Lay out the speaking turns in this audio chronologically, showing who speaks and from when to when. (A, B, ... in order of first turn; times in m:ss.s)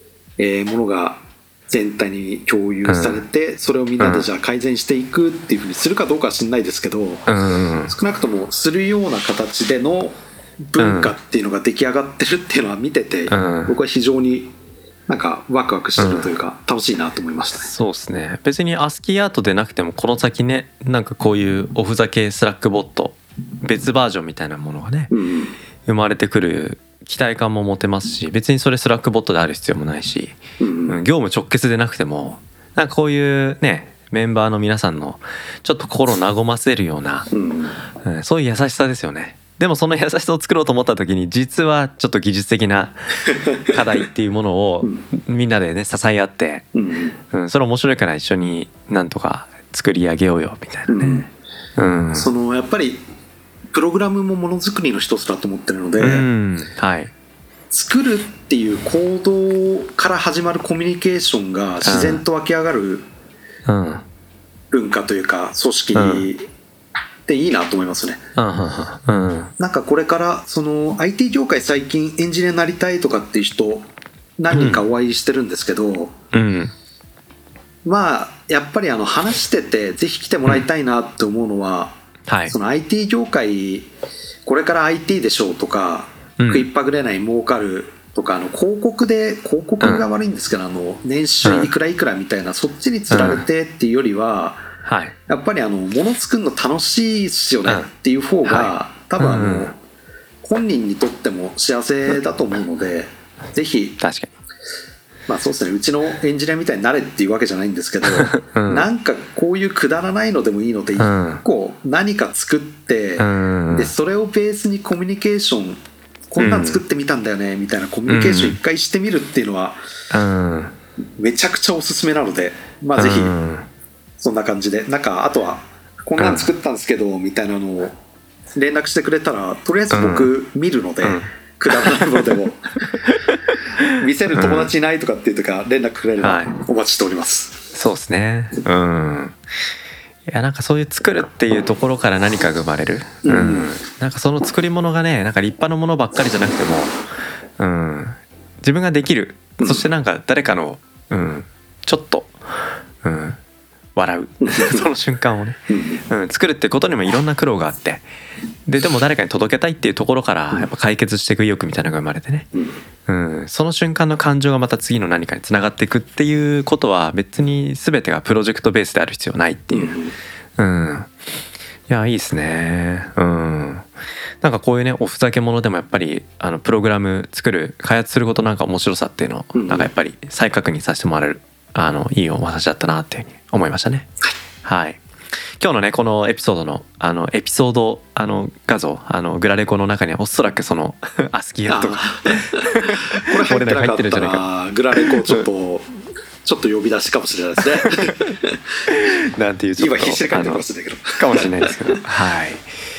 0:00.4-0:07.3 A
0:02.9-0:03.2 B
0:04.0-0:04.3 B
0:07.3-0:07.9 B
0:07.9-0:14.5 A
0:10.8-0:11.2 B
0:13.3-0:13.7 B
0:15.1-0:17.7 A
0:16.0-0:16.3 B
0:17.6-0:25.1 B
0:25.1-0:25.6 A
0:25.9-0:30.4 B
0:30.6-0:31.0 A
0:30.9-0:37.3 B
0:37.3-0:37.8 A
0:38.0-0:46.6 B
0:46.7-0:47.2 A
0:47.3-0:51.2 B
0:50.9-0:51.3 A
0:51.8-0:52.3 B
0:52.1-0:53.0 A
0:53.7-0:56.3 A
0:56.0-0:57.1 B
0:57.7-1:03.1 A
1:01.8-1:02.2 B
1:03.7-1:04.0 B
1:04.7-1:06.4 A
1:06.0-1:06.3 B
1:07.2-1:08.2 A
1:08.4-1:09.5 B
1:09.6-1:16.1 A
1:14.5-1:14.8 B
1:16.3-1:16.7 B
1:17.8-1:23.9 A
1:22.3-1:22.5 B
1:24.4-1:34.6 A
1:26.4-1:26.7 B
1:29.8-1:30.1 B
1:31.4-1:31.7 B
1:33.1-1:33.4 B
1:34.8-1:35.1 B
1:35.3-1:39.8 A
1:38.4-1:39.7 B
1:40.4-1:44.0 A
1:44.0-1:44.3 B
1:45.3-1:59.8 A
1:48.0-1:48.9 B
1:51.0-1:51.4 B
1:53.2-1:53.9 B
1:56.4-1:56.8 B
1:58.1-1:58.6 B
2:00.1-2:00.8 B
2:01.2-2:03.4 A
2:03.0-2:03.7 B
2:04.2-2:08.0 A
2:06.2-2:06.5 B
2:08.5-2:13.0 A
2:09.9-2:10.3 B
2:11.0-2:12.4 B
2:13.9-2:17.6 A
2:14.3-2:14.7 B
2:16.2-2:16.5 B
2:17.7-2:19.4 B
2:20.3-2:26.9 B
2:23.2-2:23.7 A
2:27.6-2:32.4 B
2:29.6-2:29.9 A
2:33.0-2:33.4 B
2:34.0-2:38.0 B
2:34.4-2:34.9 A
2:35.7-2:36.0 A
2:38.7-2:42.5 B
2:43.1-2:50.0 B
2:49.7-2:50.2 A
2:50.6-2:51.1 B
2:51.9-2:53.9 B
2:54.4-3:04.1 B
2:59.6-2:59.9 A
3:04.6-3:05.0 B
3:05.6-3:14.4 B
3:11.7-3:15.9 A
3:15.0-3:15.4 B
3:16.4-3:18.6 A
3:17.8-3:18.2 B
3:18.9-3:20.6 B
3:19.8-3:21.8 A
3:21.2-3:22.7 B